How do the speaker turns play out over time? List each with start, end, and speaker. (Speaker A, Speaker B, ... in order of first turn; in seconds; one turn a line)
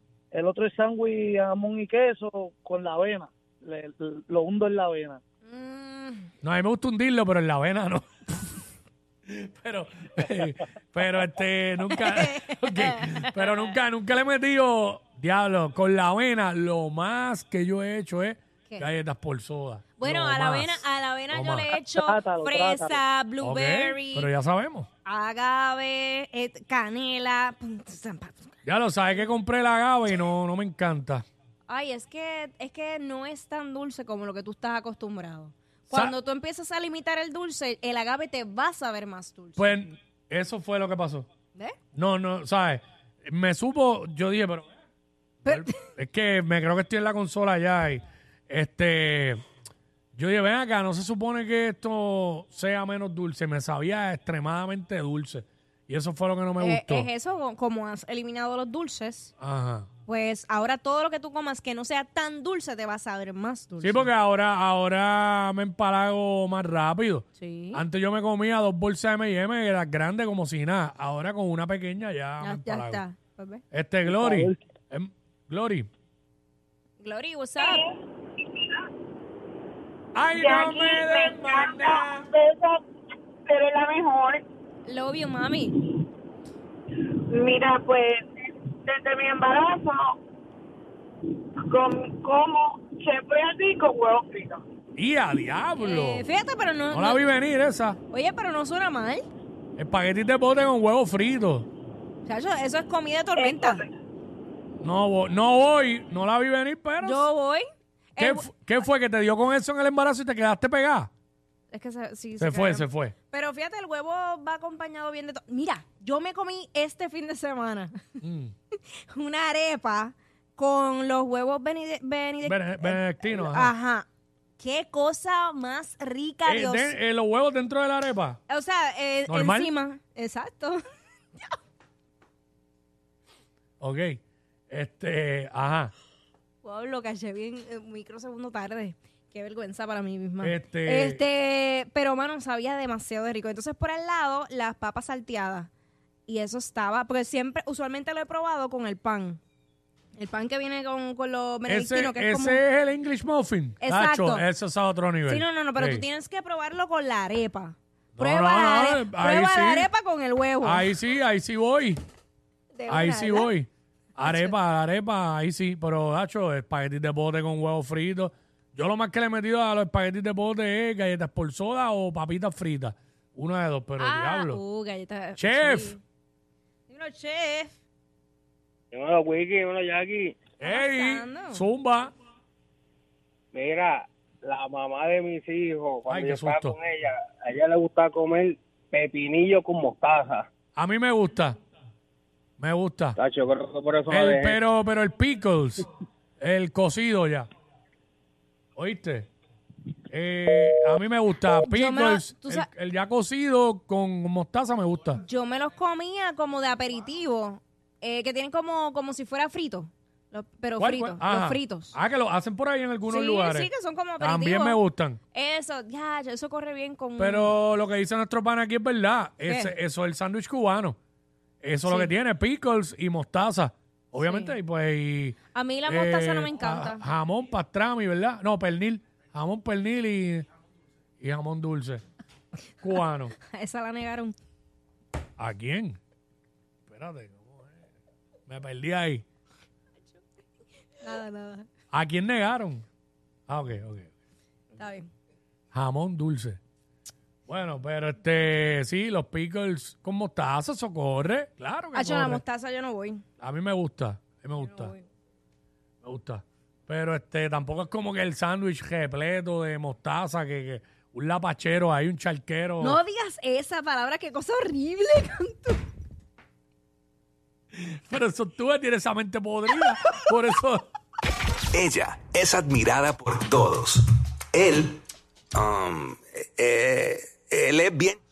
Speaker A: 0.3-5.2
Speaker B: 5.5-6.3
Speaker C: 6.4-8.5
Speaker C: 9.3-21.7
Speaker B: 11.9-13.4
Speaker B: 20.0-24.3
Speaker A: 21.8-23.0
Speaker C: 23.4-24.9
Speaker B: 25.0-28.5
Speaker C: 28.6-31.2
Speaker B: 31.7-39.8
Speaker C: 35.9-36.1
Speaker C: 39.6-41.3
Speaker C: 41.9-44.7
Speaker C: 45.4-49.4
Speaker B: 45.4-45.8
Speaker C: 50.1-57.1
Speaker B: 56.6-59.3
Speaker C: 59.4-59.9
Speaker B: 60.0-64.1
Speaker C: 63.8-73.0
Speaker B: 67.4-67.8
Speaker B: 72.4-73.6
Speaker C: 73.7-75.9
Speaker A: 74.1-74.5
Speaker B: 77.0-77.8
Speaker D: 77.6-77.9
Speaker D: 78.5-78.8
Speaker C: 80.1-82.2
Speaker D: 80.3-82.8
Speaker D: 83.5-84.4
Speaker B: 84.8-85.8
Speaker D: 87.0-90.2
Speaker D: 91.7-94.6
Speaker C: 95.0-96.2
Speaker B: 95.8-97.3
Speaker C: 96.9-98.0
Speaker B: 98.1-99.2
Speaker C: 99.8-101.7
Speaker B: 102.2-103.8
Speaker D: 103.4-103.8
Speaker C: 104.8-107.3
Speaker B: 107.0-107.6
Speaker B: 108.2-108.5
Speaker C: 108.2-111.1
Speaker B: 111.7-118.0
Speaker C: 112.4-113.1
Speaker C: 118.2-118.5
Speaker B: 119.0-124.0
Speaker C: 122.4-123.7
Speaker B: 124.6-127.0
Speaker C: 126.5-128.4
Speaker B: 128.5-130.8
Speaker C: 129.3-129.7
Speaker C: 133.8-134.2
Speaker C: 134.7-135.9
Speaker B: 136.6-145.7
Speaker C: 140.4-141.2
Speaker B: 146.3-149.4
Speaker B: 150.2-152.6
Speaker C: 151.7-156.1
Speaker B: 153.8-154.4
Speaker B: 155.3-160.8
Speaker C: 158.2-159.9
Speaker C: 160.6-162.0
Speaker B: 162.7-163.5
Speaker C: 162.9-174.6
Speaker B: 164.2-164.5
Speaker B: 174.0-176.0
Speaker C: 175.4-176.0
Speaker B: 176.9-177.7
Speaker E: 178.9-180.4
Speaker B: 180.6-181.6
Speaker C: 180.6-182.1
Speaker E: 183.5-190.5
Speaker C: 186.1-186.7
Speaker C: 190.8-191.6
Speaker C: 192.6-193.2
Speaker E: 193.2-194.6
Speaker C: 194.1-195.9
Speaker C: 196.4-197.5
Speaker C: 198.8-199.3
Speaker C: 200.1-205.2
Speaker B: 201.6-202.7
Speaker B: 205.2-211.9
Speaker C: 210.8-215.2
Speaker B: 213.1-214.8
Speaker B: 215.3-217.5
Speaker C: 217.2-221.0
Speaker B: 219.4-219.7
Speaker C: 221.6-230.4
Speaker B: 221.8-222.1
Speaker B: 224.2-224.5
Speaker B: 225.5-227.0
Speaker C: 231.2-232.0
Speaker C: 232.8-233.3
Speaker B: 233.4-234.3
Speaker C: 235.4-236.0
Speaker C: 236.9-237.8
Speaker C: 238.5-239.2
Speaker B: 241.0-241.7
Speaker C: 241.9-242.8
Speaker C: 243.5-244.1
Speaker B: 244.8-245.1
Speaker C: 245.7-246.6
Speaker C: 247.5-252.4
Speaker B: 251.9-253.2
Speaker C: 253.4-254.9
Speaker B: 254.6-255.0
Speaker C: 256.0-263.0
Speaker B: 262.8-265.8
Speaker C: 267.8-270.9
Speaker F: 271.7-275.0
Speaker F: 275.5-278.2